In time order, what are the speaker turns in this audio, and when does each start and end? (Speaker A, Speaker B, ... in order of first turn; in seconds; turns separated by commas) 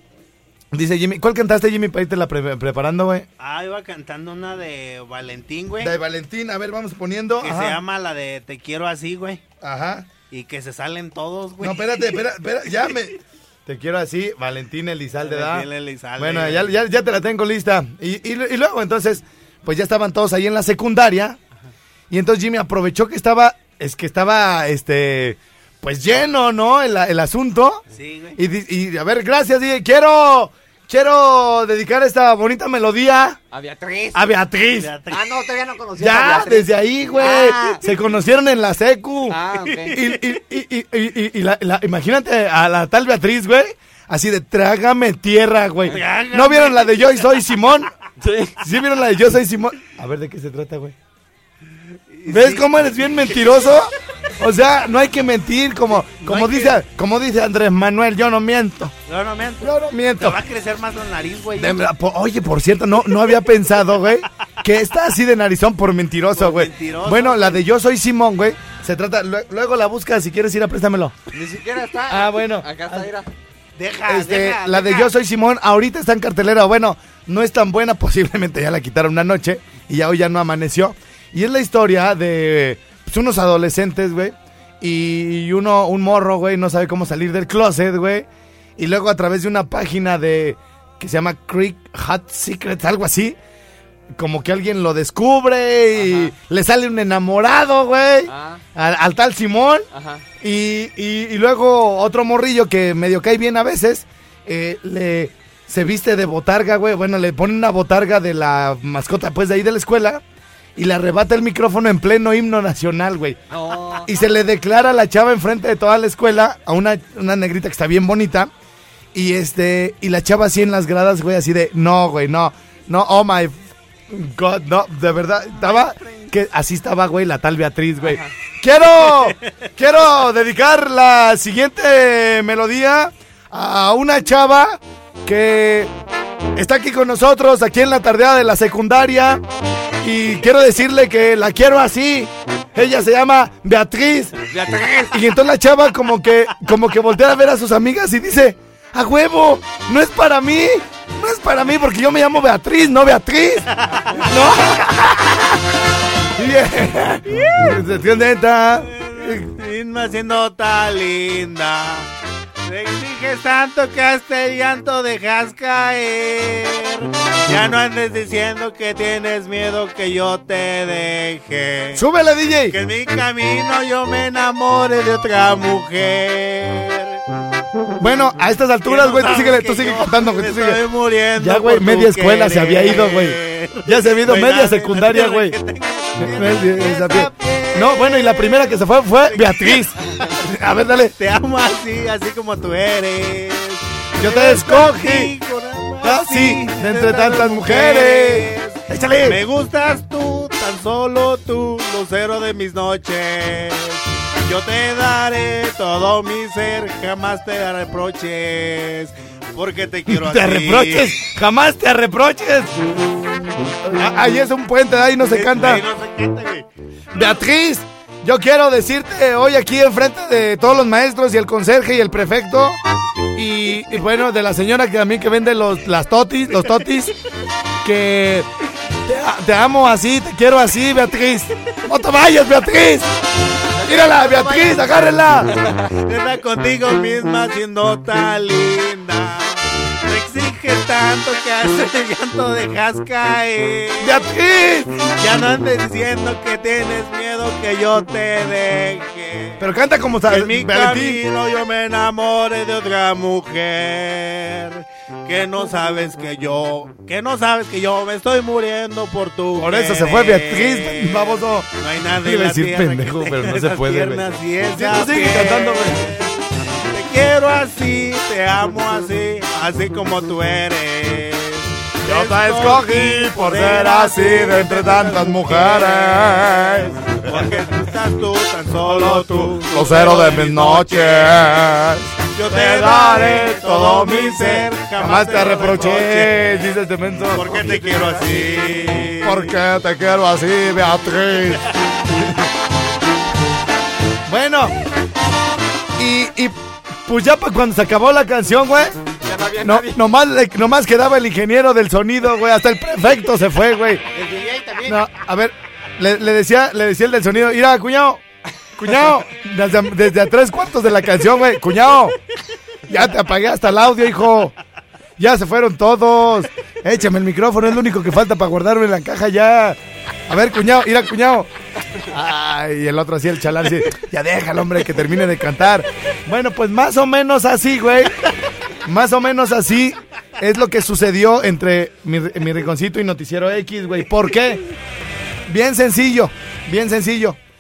Speaker A: 0.7-3.3, Speaker B: 3.4-5.9, Speaker A: 5.8-7.8, Speaker B: 7.4-9.4, Speaker A: 9.6-10.1, Speaker B: 10.3-12.2, Speaker A: 11.6-21.4, Speaker B: 15.2-16.7, Speaker A: 22.1-27.8, Speaker B: 27.9-28.4, Speaker A: 28.4-33.4, Speaker C: 33.5-34.3, Speaker A: 34.1-34.9, Speaker B: 34.8-35.4, Speaker C: 35.1-37.8, Speaker A: 36.0-47.9, Speaker B: 37.1-37.6, Speaker C: 39.3-40.0, Speaker B: 39.6-40.2, Speaker B: 45.8-47.5, Speaker C: 48.2-48.5, Speaker A: 48.6-51.0, Speaker B: 52.2-52.8, Speaker A: 52.3-58.9, Speaker B: 56.2-56.8, Speaker B: 59.1-61.8, Speaker A: 59.6-60.4, Speaker A: 61.6-71.2, Speaker B: 66.3-67.6, Speaker C: 71.3-73.3, Speaker A: 72.1-73.1, Speaker B: 73.8-75.1, Speaker A: 74.0-93.4, Speaker A: 94.1-99.9, Speaker C: 95.9-96.3, Speaker C: 98.3-98.6, Speaker C: 99.9-100.2, Speaker A: 100.4-110.2, Speaker A: 110.8-113.4, Speaker C: 113.5-114.2, Speaker A: 114.0-118.5, Speaker A: 119.1-135.9, Speaker B: 125.6-126.3, Speaker C: 128.0-128.3, Speaker B: 129.1-129.5, Speaker A: 136.6-139.4, Speaker A: 140.0-144.4, Speaker C: 144.4-145.2, Speaker A: 145.1-155.5, Speaker B: 153.8-154.3, Speaker A: 156.3-159.5, Speaker B: 157.3-157.6, Speaker B: 158.9-162.1, Speaker B: 162.6-172.0, Speaker A: 171.9-172.8, Speaker B: 172.7-177.2, Speaker A: 178.0-180.8, Speaker B: 178.8-190.4, Speaker A: 181.4-185.6, Speaker A: 186.2-191.1, Speaker B: 191.2-211.1, Speaker A: 194.2-195.3, Speaker A: 196.0-199.4, Speaker A: 210.1-212.7, Speaker A: 213.9-215.8, Speaker B: 215.3-217.4, Speaker A: 217.1-222.8, Speaker A: 223.3-227.1, Speaker A: 227.8-228.5, Speaker A: 229.1-233.1, Speaker C: 233.8-234.8, Speaker A: 233.8-235.5, Speaker B: 235.9-244.2, Speaker A: 244.0-245.0, Speaker B: 245.1-249.6, Speaker A: 249.6-251.2, Speaker B: 250.3-281.8, Speaker A: 259.6-266.0, Speaker A: 272.0-277.6, Speaker A: 278.8-292.4, Speaker B: 282.3-286.7, Speaker B: 287.3-289.5, Speaker A: 294.3-294.7, Speaker A: 296.0-299.0, Speaker C: 299.2-300.0, Speaker A: 299.6-304.0, Speaker C: 304.1-305.0, Speaker A: 304.8-308.2, Speaker A: 308.8-312.1, Speaker A: 312.9-314.5, Speaker A: 315.2-321.5, Speaker A: 322.1-328.1, Speaker A: 328.8-334.6, Speaker A: 335.5-337.4